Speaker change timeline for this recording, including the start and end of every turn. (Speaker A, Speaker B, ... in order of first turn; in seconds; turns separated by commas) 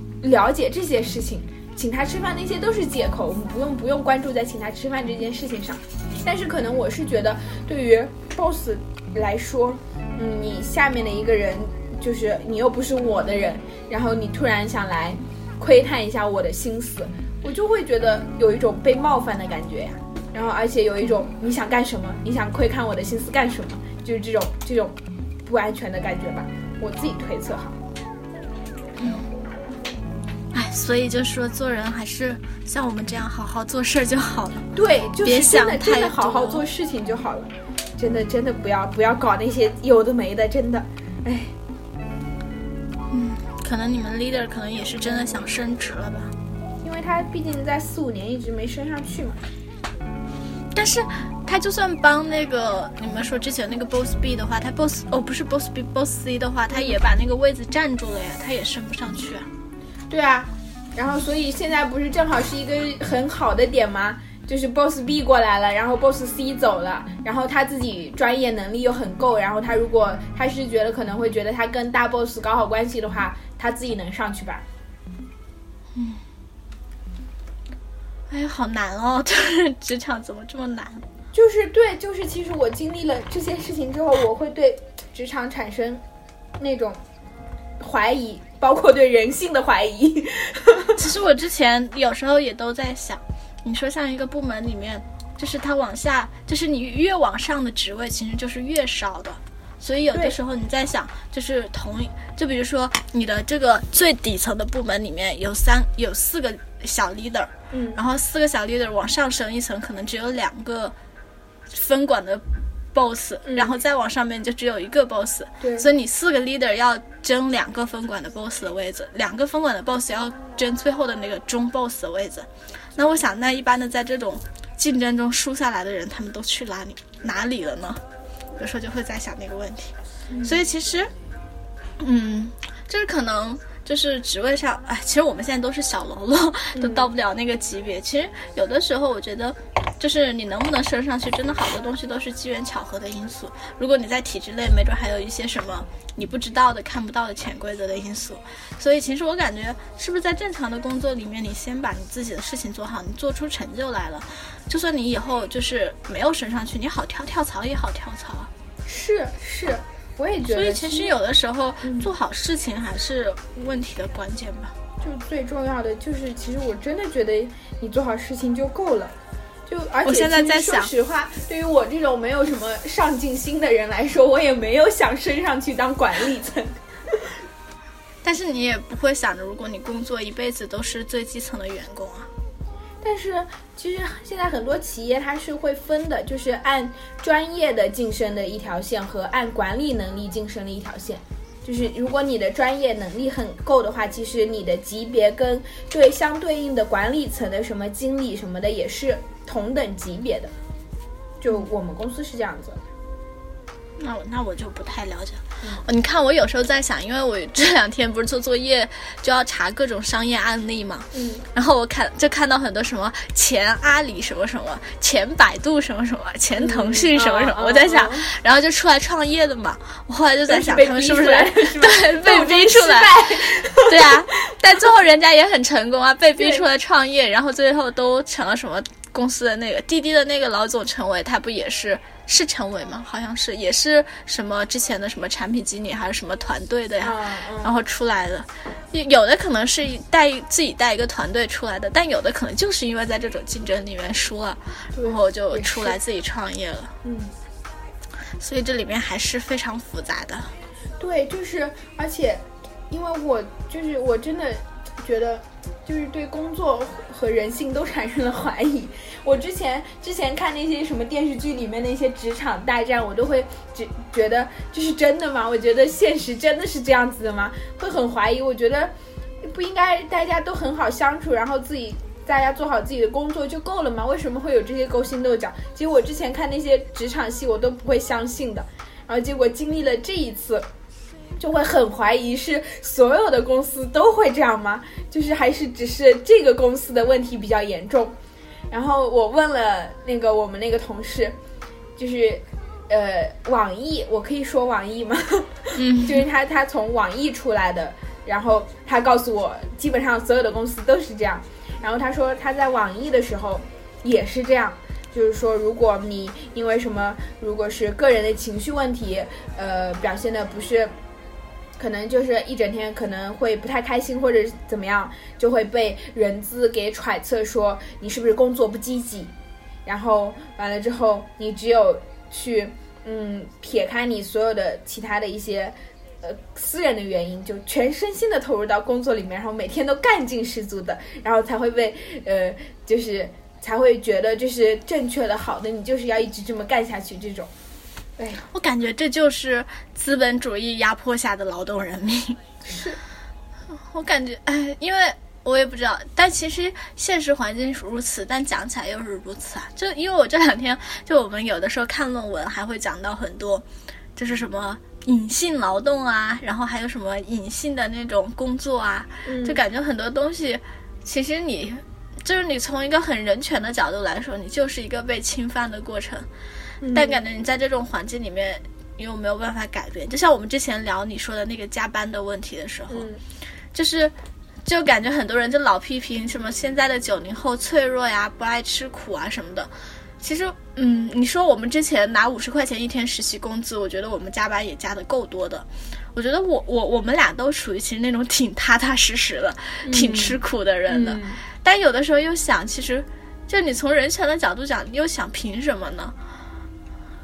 Speaker A: 0.2-27.8, Speaker B: 29.0-29.3, Speaker B: 30.5-34.7, Speaker A: 34.8-41.5, Speaker B: 35.2-36.6, Speaker B: 43.1-46.3, Speaker A: 46.8-49.4, Speaker B: 50.7-59.5, Speaker A: 60.1-74.7, Speaker B: 76.0-76.2, Speaker B: 78.3-81.0, Speaker A: 81.3-86.0, Speaker A: 86.6-87.0, Speaker A: 87.8-91.0, Speaker B: 91.0-111.0, Speaker A: 107.7-108.0, Speaker B: 111.7-128.0, Speaker A: 113.5-113.7, Speaker A: 115.6-115.9, Speaker B: 128.6-131.1, Speaker A: 130.3-130.6, Speaker B: 132.0-158.5, Speaker A: 136.7-137.1, Speaker A: 158.9-161.1, Speaker B: 160.5-164.8, Speaker A: 165.0-169.1, Speaker A: 169.7-177.2, Speaker B: 170.1-170.9, Speaker B: 178.2-182.3, Speaker A: 183.0-200.5, Speaker A: 201.4-202.8, Speaker B: 204.0-246.9, Speaker A: 211.1-211.4, Speaker A: 216.6-218.3, Speaker A: 220.5-224.2, Speaker A: 226.4-226.6, Speaker A: 237.0-237.8, Speaker A: 244.9-246.0, Speaker A: 247.0-247.3, Speaker B: 248.4-250.5, Speaker A: 251.0-280.7, Speaker A: 281.4-288.1, Speaker A: 288.7-291.4, Speaker A: 292.0-310.9, Speaker B: 295.8-296.2, Speaker A: 311.8-319.3, Speaker A: 319.9-337.5, Speaker A: 338.2-338.4, Speaker B: 338.5-342.4, Speaker A: 342.7-343.0, Speaker B: 343.7-353.6, Speaker B: 354.2-366.3, Speaker A: 359.2-359.6, Speaker A: 366.8-367.2, Speaker B: 366.9-373.1, Speaker A: 372.9-373.2, Speaker B: 373.7-374.1, Speaker B: 374.6-396.1, Speaker A: 389.8-391.4